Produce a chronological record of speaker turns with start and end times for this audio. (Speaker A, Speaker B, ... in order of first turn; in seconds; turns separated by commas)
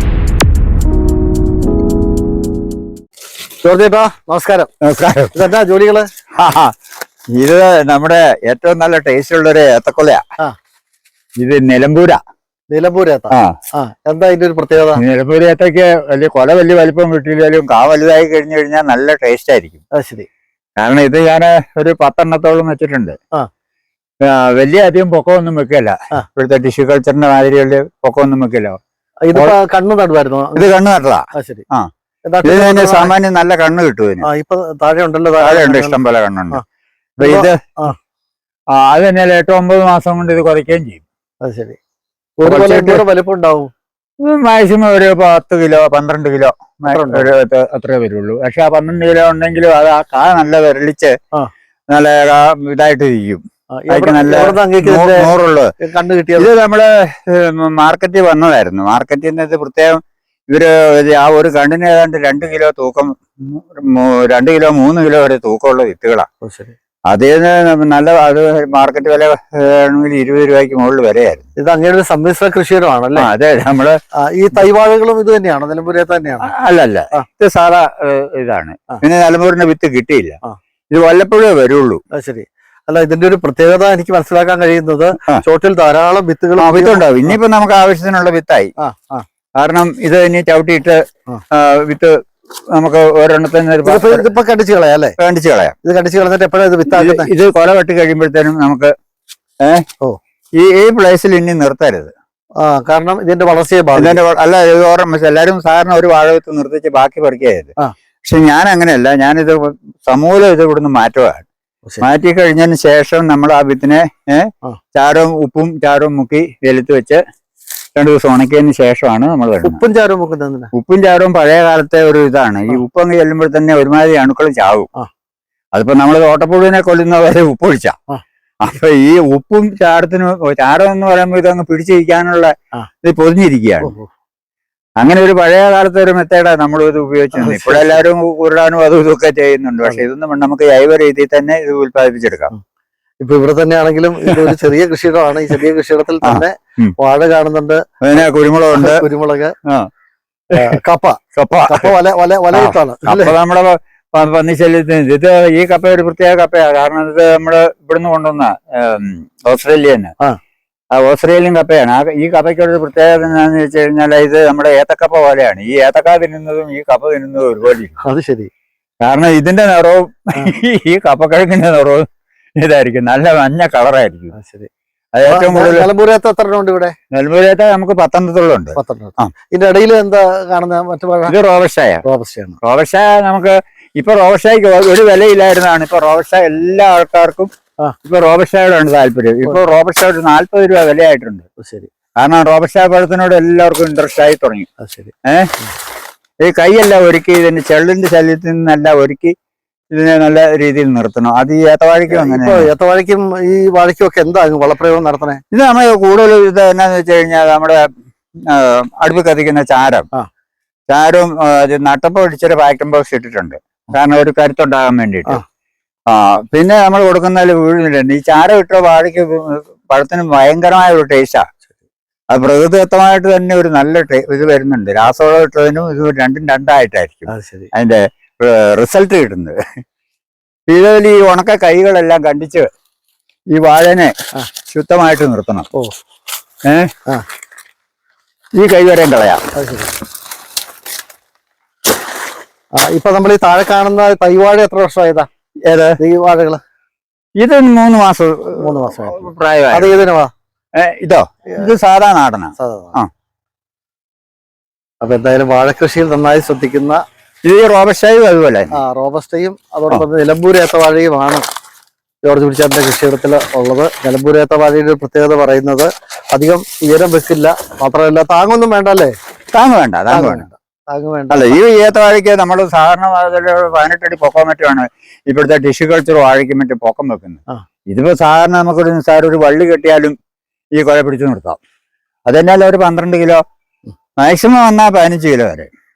Speaker A: 3.6-4.7, Speaker B: 4.8-5.3, Speaker A: 5.3-6.0, Speaker B: 6.4-6.7, Speaker B: 7.4-10.2, Speaker B: 11.4-12.2, Speaker A: 12.7-15.0, Speaker B: 15.0-19.8, Speaker A: 19.9-20.3, Speaker B: 20.8-23.2, Speaker B: 24.3-28.8, Speaker A: 29.3-30.7, Speaker B: 30.6-31.9, Speaker A: 31.3-31.6, Speaker A: 32.3-33.1, Speaker B: 32.4-34.3, Speaker A: 34.2-36.0, Speaker B: 35.4-36.6, Speaker B: 37.2-37.6, Speaker A: 37.2-38.0, Speaker B: 38.8-41.0, Speaker A: 41.4-41.8, Speaker A: 42.4-43.7, Speaker B: 42.5-43.0, Speaker B: 44.2-51.1, Speaker A: 46.9-47.3, Speaker B: 51.9-55.7, Speaker A: 53.8-55.3, Speaker A: 55.8-56.5, Speaker B: 56.4-60.0, Speaker B: 60.5-66.3, Speaker A: 66.4-66.8, Speaker B: 67.1-71.5, Speaker A: 71.6-73.3, Speaker B: 73.2-74.0, Speaker A: 74.3-76.5, Speaker B: 76.4-80.4, Speaker B: 80.9-82.0, Speaker A: 82.2-87.3, Speaker B: 86.6-88.7, Speaker A: 88.8-89.2, Speaker B: 89.6-91.0, Speaker B: 91.5-92.1, Speaker B: 92.7-94.3, Speaker A: 93.8-95.2, Speaker B: 95.2-95.7, Speaker A: 95.8-97.3, Speaker B: 96.9-98.9, Speaker B: 100.6-102.1, Speaker A: 102.6-104.2, Speaker B: 104.0-107.7, Speaker B: 108.3-111.5, Speaker B: 112.0-117.2, Speaker B: 118.0-119.8, Speaker A: 119.6-120.7, Speaker B: 120.7-124.9, Speaker B: 125.7-128.0, Speaker B: 128.6-132.5, Speaker B: 133.0-134.0, Speaker A: 133.8-134.1, Speaker B: 135.0-142.5, Speaker A: 137.4-138.0, Speaker A: 143.2-147.8, Speaker B: 144.3-144.6, Speaker B: 146.2-146.9, Speaker B: 148.0-149.0, Speaker A: 148.8-149.6, Speaker A: 150.5-153.3, Speaker B: 151.4-151.9, Speaker B: 152.5-160.1, Speaker B: 161.0-168.0, Speaker A: 168.0-168.5, Speaker B: 169.0-172.0, Speaker B: 172.6-174.3, Speaker A: 174.3-174.7, Speaker B: 175.1-175.9, Speaker A: 175.3-176.9, Speaker B: 177.2-179.3, Speaker A: 178.8-181.3, Speaker B: 181.3-182.0, Speaker A: 182.1-182.6, Speaker B: 182.6-187.5, Speaker B: 188.1-191.5, Speaker A: 191.6-191.9, Speaker B: 192.2-194.7, Speaker A: 194.8-195.1, Speaker B: 195.2-195.5, Speaker B: 196.4-199.3, Speaker B: 199.9-202.7, Speaker A: 202.1-205.4, Speaker B: 205.5-207.8, Speaker B: 208.5-210.1, Speaker B: 210.9-215.4, Speaker B: 216.1-221.4, Speaker B: 222.3-229.6, Speaker A: 227.3-227.7, Speaker B: 230.7-232.7, Speaker B: 233.5-234.1, Speaker B: 234.7-235.7, Speaker B: 238.5-239.4, Speaker A: 239.6-239.9, Speaker A: 242.8-245.3, Speaker B: 245.7-246.0, Speaker A: 246.0-246.6, Speaker B: 247.4-250.0, Speaker A: 248.6-250.3, Speaker B: 250.8-253.1, Speaker A: 252.6-252.9, Speaker A: 255.0-257.0, Speaker B: 257.4-258.8, Speaker A: 258.7-261.4, Speaker A: 262.3-269.1, Speaker B: 269.5-270.5, Speaker A: 270.1-271.6, Speaker B: 271.3-280.1, Speaker B: 280.8-281.6, Speaker B: 282.3-283.4, Speaker B: 284.2-285.7